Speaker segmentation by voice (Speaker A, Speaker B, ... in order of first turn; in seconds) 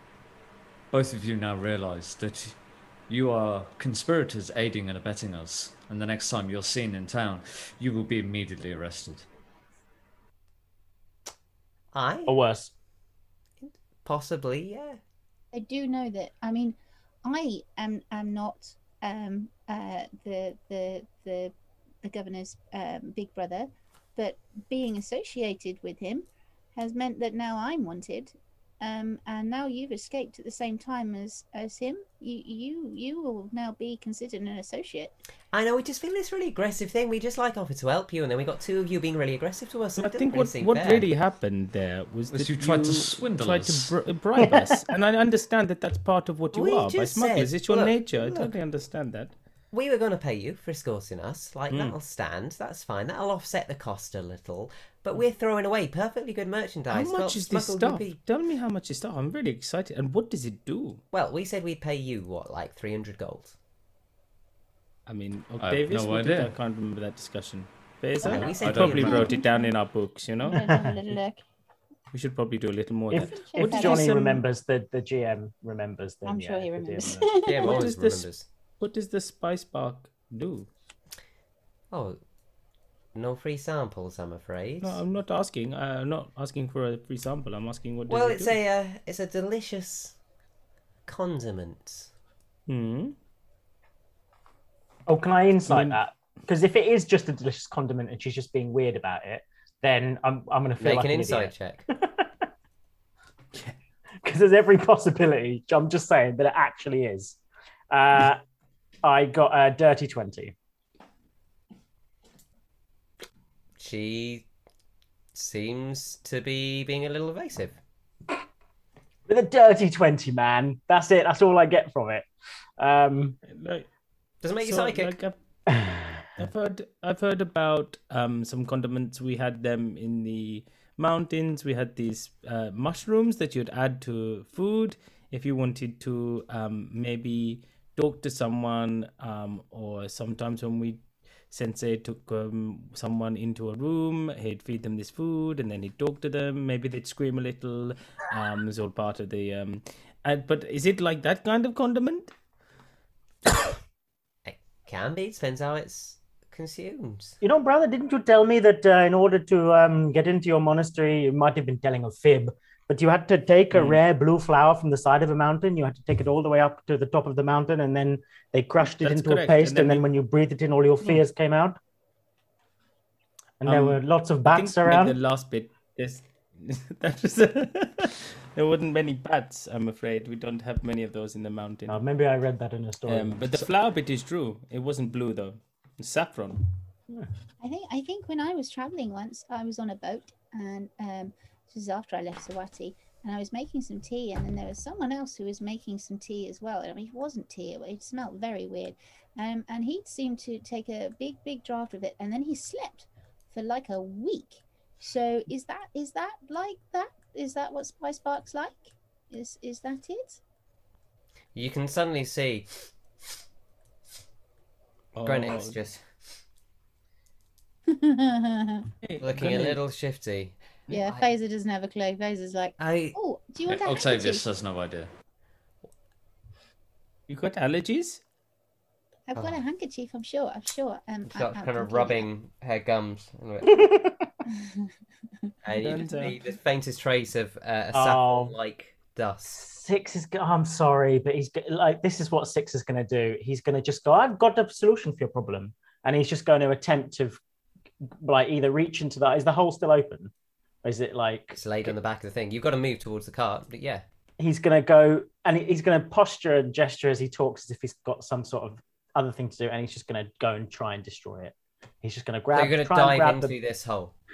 Speaker A: 0.9-9.3, 42.3-43.9, 65.6-66.6, 68.4-69.3, 223.7-225.1
Speaker B: 11.9-12.4, 13.6-15.0, 35.5-41.1, 46.5-48.6, 49.7-58.2, 61.1-63.5, 68.3-69.4, 77.5-78.5, 81.9-82.2, 83.1-85.0, 88.1-90.2, 91.1-92.1, 100.8-101.8, 113.8-114.5, 115.3-117.8, 124.4-125.2, 154.4-157.3, 211.5-212.7, 215.2-216.1, 219.2-221.3, 222.8-223.2, 231.3-233.7, 235.6-239.6, 251.5-254.0, 262.5-264.1
Speaker C: 12.3-12.7, 44.4-44.7, 73.1-77.3, 95.1-102.3, 104.2-107.4, 107.9-108.4, 109.0-110.5, 119.3-122.3, 122.8-123.3, 125.7-126.2, 157.4-171.8, 173.6-175.2, 181.9-183.7, 233.8-234.1, 237.9-238.5, 239.5-247.4, 248.2-250.3, 250.8-251.9, 254.4-263.5
Speaker D: 15.5-35.1, 68.2-69.7, 70.4-71.5, 73.1-74.1, 76.2-77.8, 187.6-210.4, 217.9-218.8, 220.9-224.4, 229.3-232.3
Speaker E: 40.0-49.3, 51.7-52.0, 56.9-61.0, 65.0-70.6, 72.1-74.4, 77.6-80.7, 84.8-88.6, 92.7-93.2, 95.6-96.0, 123.4-123.9, 124.6-125.4, 126.4-152.3, 163.7-164.0, 168.8-170.1, 173.7-182.0, 183.1-186.6, 215.1-215.8, 219.0-219.8, 227.3-228.2, 235.8-236.4